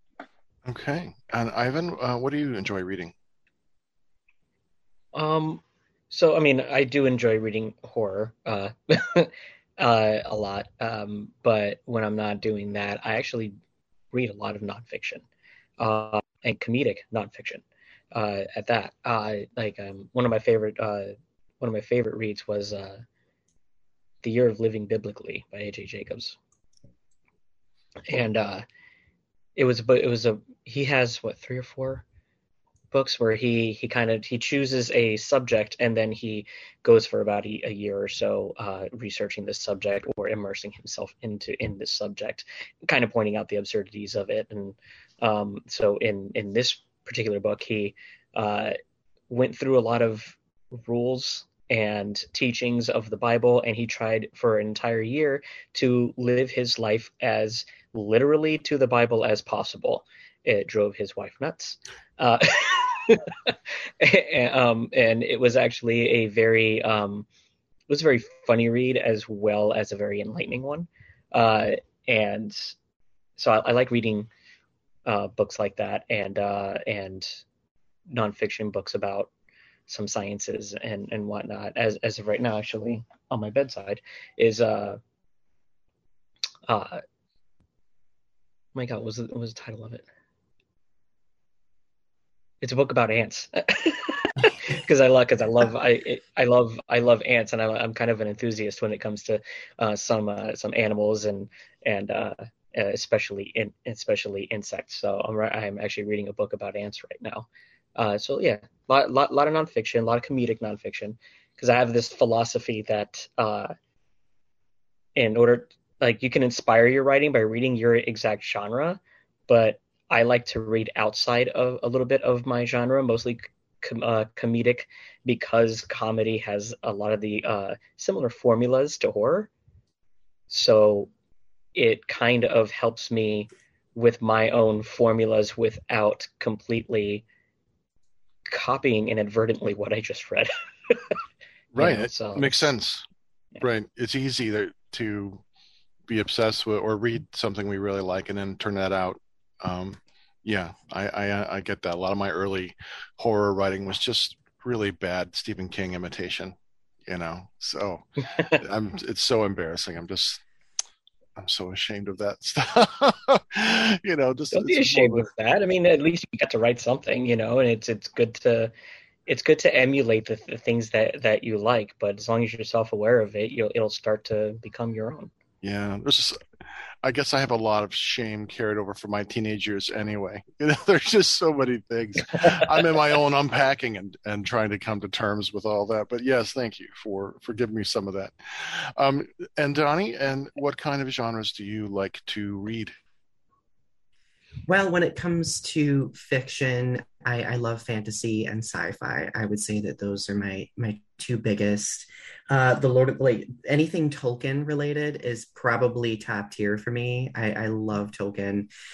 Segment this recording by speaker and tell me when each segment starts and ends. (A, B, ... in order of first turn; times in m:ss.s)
0:00.6-0:03.1 A
0:05.1-0:13.6 B
0:14.1-0:15.2 B
0:15.8-0:23.0 B
0:24.2-0:26.4 B
0:28.1-0:28.6 B
0:29.6-0:32.0 B
0:32.9-0:48.8 B
0:49.3-1:07.3 B
1:07.9-1:12.7 B
1:13.4-1:14.3 B
1:15.0-1:17.4 B
1:18.1-1:19.3 B
1:19.9-1:25.0 B
1:26.6-1:27.0 B
1:28.7-1:30.0 B
1:32.6-1:53.7 B
1:55.2-2:09.5 B
2:10.5-2:11.1 B
2:11.7-2:17.2 B
2:18.5-2:21.1 B
2:21.7-2:23.0 A
2:21.8-2:22.6 B
2:23.6-2:25.4 A
2:26.1-2:40.4 A
2:41.4-2:45.3 A
2:44.5-2:48.7 B
2:49.3-2:55.3 B
2:55.6-2:56.4 A
2:57.0-3:12.9 A
3:14.7-3:28.7 C